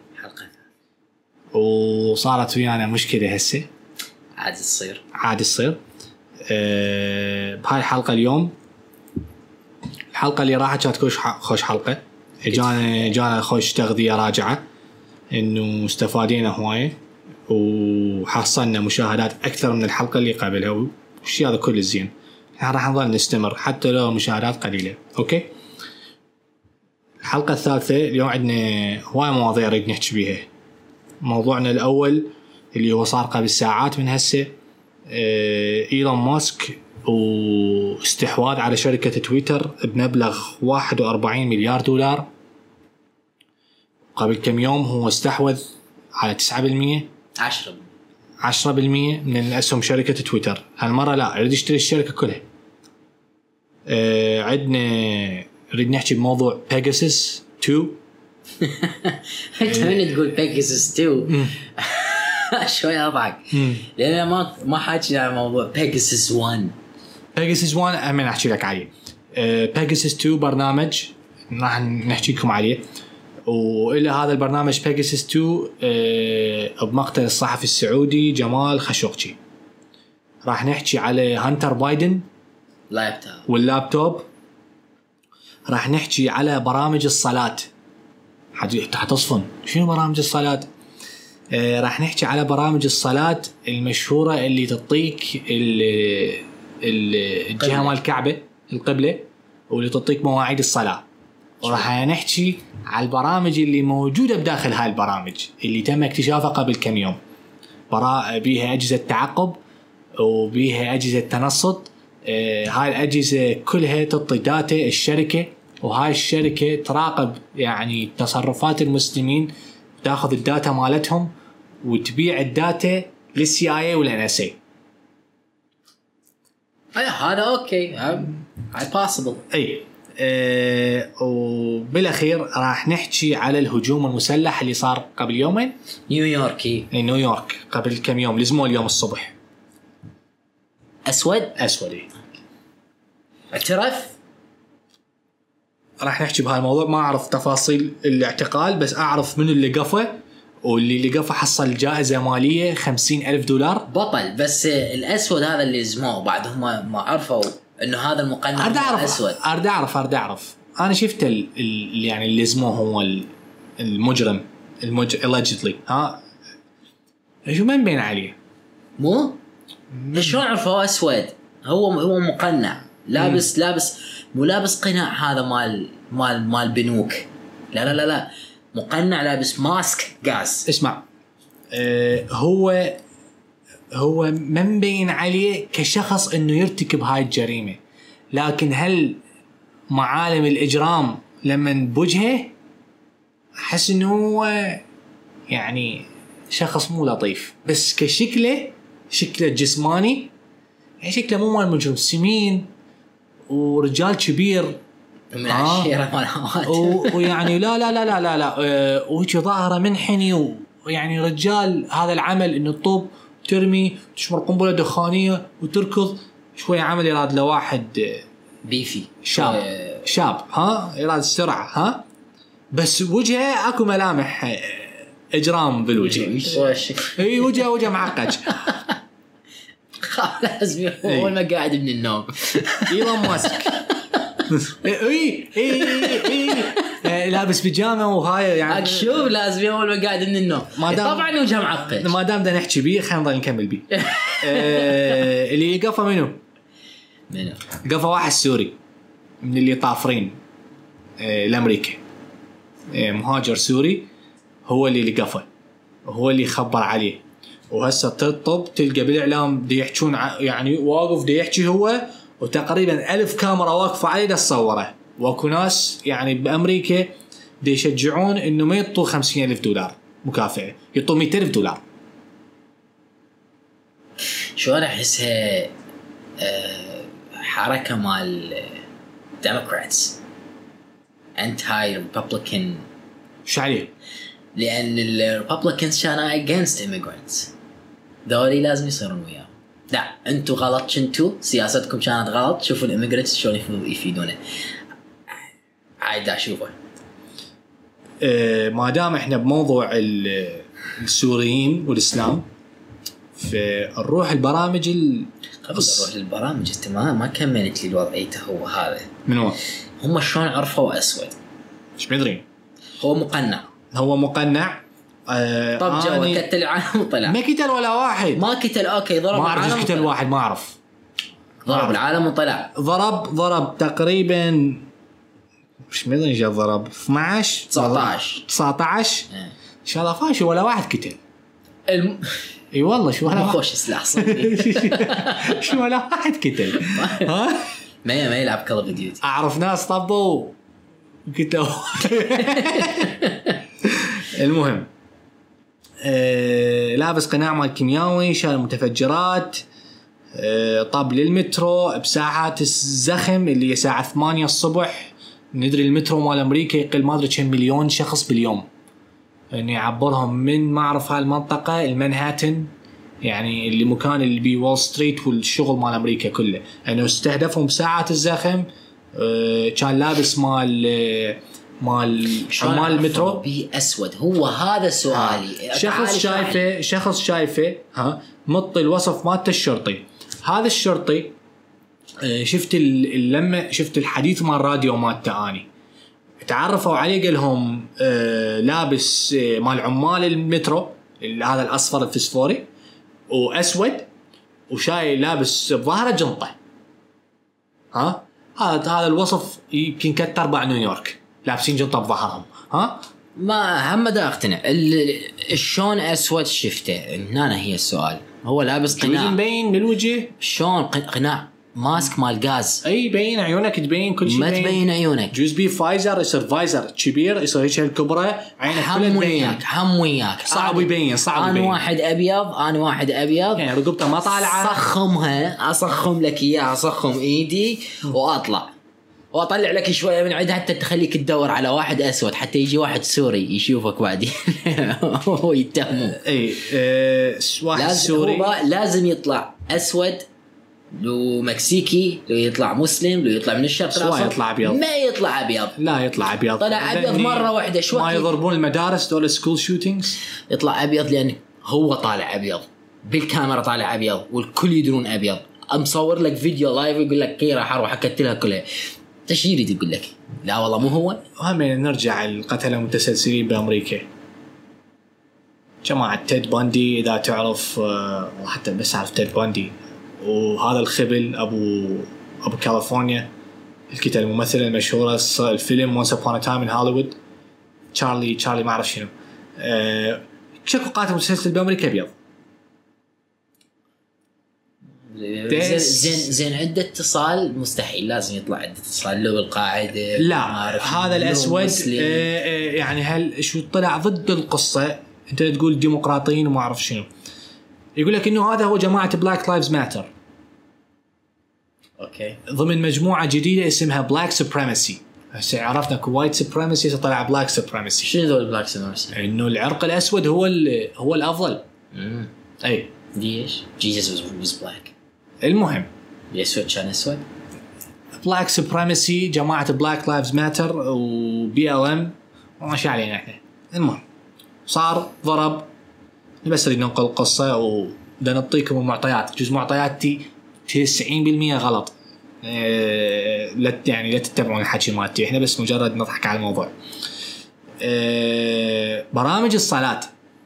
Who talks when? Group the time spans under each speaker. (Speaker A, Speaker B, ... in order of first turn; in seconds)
Speaker A: 0.2-0.6, 4.3-5.0, 12.5-13.1, 47.4-47.9, 58.6-66.8, 82.9-83.5, 97.6-97.9, 126.9-129.4, 136.1-136.9, 141.0-141.6, 143.5-144.2, 153.9-159.4, 169.0-169.4, 170.1-180.7, 205.3-207.5, 218.6-220.1, 226.0-227.6, 228.5-229.0, 230.0-234.4, 235.7-237.1, 238.6-242.2, 243.9-245.2, 247.3-247.6, 274.2-275.7, 276.4-278.8, 279.4-280.2, 281.4-282.8, 284.6-287.5, 288.2-294.7, 296.0-296.8, 305.6-309.1, 310.0-311.4, 313.0-313.7, 315.8-317.4, 318.4-320.1, 321.6-322.7, 327.7-328.4, 331.9-332.4, 333.3-335.6, 336.8-337.3, 338.0-339.2, 342.4-343.6, 372.5-376.6, 403.4-409.4, 410.4-412.8, 414.2-415.3, 418.7-423.6, 424.2-428.7, 429.3-436.2, 437.7-440.3, 440.9-445.8, 446.6-448.3, 450.5-461.2, 485.0-492.3, 502.0-502.4, 508.0-509.1, 511.9-512.3, 513.1-514.9, 516.3-517.2
Speaker B: 1.5-3.7, 5.1-5.8, 6.5-8.5, 10.1-14.6, 15.3-16.9, 17.5-25.5, 27.2-30.5, 31.2-34.5, 35.1-42.3, 44.1-45.6, 46.2-47.1, 48.4-52.4, 53.9-58.0, 59.6-60.0, 61.3-61.5, 63.5-63.9, 67.3-72.8, 73.5-79.3, 80.4-82.2, 83.5-84.3, 85.7-87.7, 88.5-90.7, 91.5-101.0, 101.6-107.2, 107.9-109.6, 110.2-119.5, 120.0-121.3, 121.8-124.5, 129.5-135.7, 136.9-139.3, 141.6-142.1, 146.0-153.9, 158.6-166.2, 167.5-168.3, 169.9-170.4, 173.2-173.4, 180.7-181.0, 181.7-183.0, 183.9-187.8, 188.3-189.2, 189.9-192.5, 193.6-194.8, 195.5-200.3, 201.0-202.7, 203.5-204.8, 205.5-205.9, 206.7-218.2, 219.2-222.0, 222.7-228.8, 231.0-231.3, 232.9-233.8, 234.5-239.3, 240.7-246.4, 247.8-248.8, 249.4-250.3, 251.2-252.0, 252.9-254.1, 254.7-255.4, 256.1-271.8, 283.4-283.9, 298.2-302.4, 303.4-306.1, 309.2-309.6, 312.0-312.4, 313.9-316.4, 317.3-318.4, 319.3-320.8, 321.7-322.0, 322.7-324.9, 325.9-329.3, 329.8-331.2, 332.7-337.7, 339.2-340.6, 341.2-343.2, 343.8-344.9, 346.0-349.6, 350.3-358.6, 359.5-362.7, 363.2-373.4, 375.1-381.3, 382.2-385.6, 386.4-392.7, 393.3-394.1, 394.7-396.5, 397.9-403.1, 408.9-410.3, 412.8-419.6, 420.5-421.8, 423.6-424.8, 436.2-438.5, 443.9-444.8, 445.8-450.2, 461.4-464.0, 465.8-473.3, 473.9-477.1, 477.9-482.1, 485.5-486.4, 490.1-497.1, 497.9-500.1, 502.4-508.1, 509.1-511.6, 512.6-512.9, 515.4-515.9, 518.2-524.0, 524.7-525.7, 526.4-536.7, 537.8-540.1